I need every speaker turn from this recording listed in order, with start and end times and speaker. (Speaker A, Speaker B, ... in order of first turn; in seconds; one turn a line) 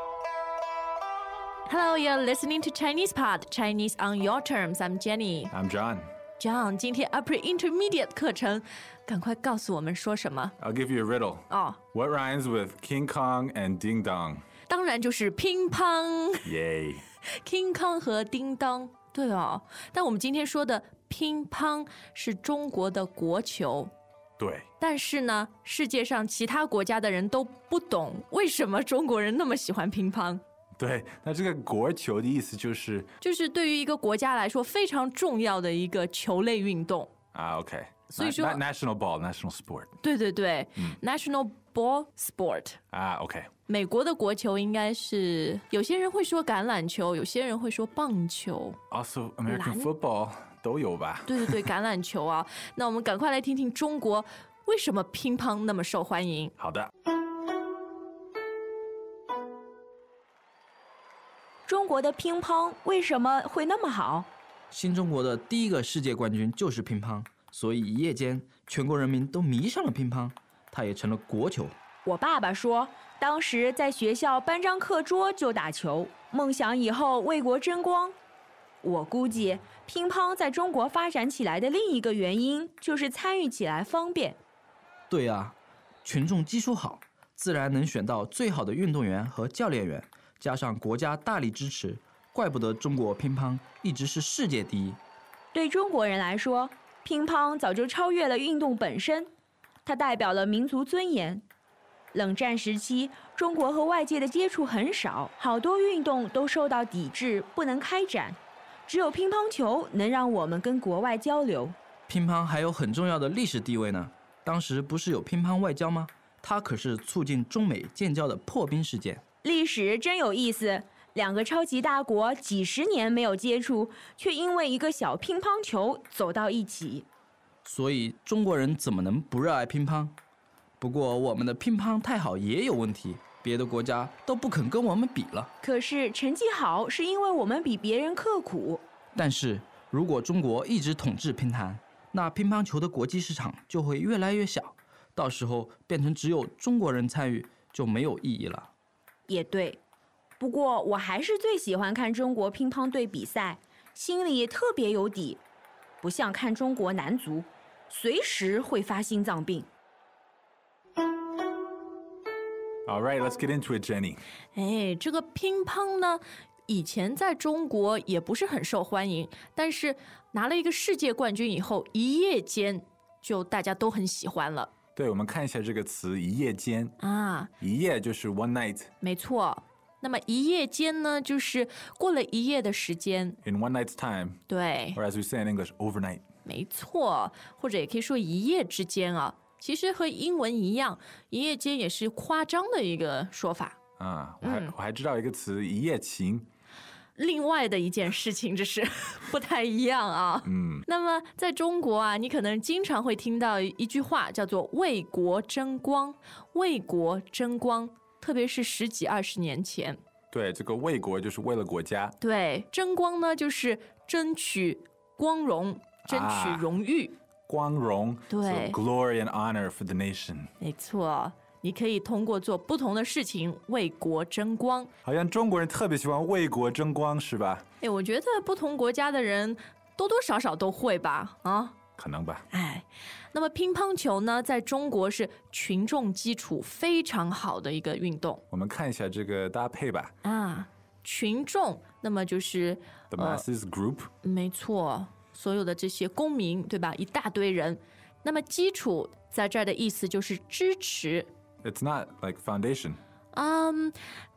Speaker A: 1.7-5.5
Speaker B: 5.5-6.1
Speaker A: 6.4-10.5
Speaker B: 10.6-14.4
Speaker A: 11.5-11.8
Speaker A: 14.7-16.5
Speaker B: 16.4-17.0
Speaker A: 17.3-23.9
Speaker B: 24.4-24.7
Speaker A: 24.8-30.4
Speaker B: 30.8-33.1
Speaker A: 33.2-37.1
Speaker B: 37.3-39.9
Speaker A: 38.1-38.6
Speaker A: 40.0-42.8
Speaker B: 42.9-43.5
Speaker A: 43.7-48.8
Speaker B: 48.9-51.5
Speaker A: 49.5-49.9
Speaker A: 51.3-56.5
Speaker B: 56.6-56.9
Speaker C: 61.7-64.3
Speaker D: 64.7-71.8
Speaker C: 72.0-78.2
Speaker C: 78.8-84.4
Speaker D: 85.1-95.0
Speaker C: 95.5-99.3
Speaker C: 99.8-101.4
Speaker C: 102.1-111.8
Speaker D: 112.1-119.2
Speaker C: 119.4-127.1
Speaker D: 127.6-130.2
Speaker D: 130.8-135.5
Speaker C: 135.6-138.8
Speaker D: 139.1-148.7
Speaker C: 149.3-149.8
Speaker C: 150.4-155.4
Speaker C: 156.0-159.7
Speaker B: 162.8-164.2
Speaker A: 164.5-174.7
Speaker B: 174.9-176.9
Speaker A: 177.0-177.5
Speaker B: 177.6-178.9
Speaker A: 179.0-183.4
Speaker B: 183.4-184.4
Speaker A: 184.5-185.0
Speaker B: 184.9-186.2
Speaker A: 186.4-193.8
Speaker B: 194.0-196.5
Speaker A: 194.4-194.7
Speaker A: 197.2-210.0
Speaker B: 200.4-200.8
Speaker B: 210.3-212.2
Speaker A: 212.2-217.2
Speaker B: 216.0-216.7
Speaker B: 217.5-220.5
Speaker A: 218.3-218.8
Speaker A: 220.6-224.9
Speaker B: 225.0-227.6
Speaker A: 227.8-231.8
Speaker B: 232.0-232.4
Speaker A: 232.5-238.4
Speaker B: 238.5-240.1
Speaker A: 240.2-243.4
Speaker B: 243.1-244.1
Speaker A: 244.2-251.3
Speaker B: 251.6-253.0
Speaker A: 253.3-254.0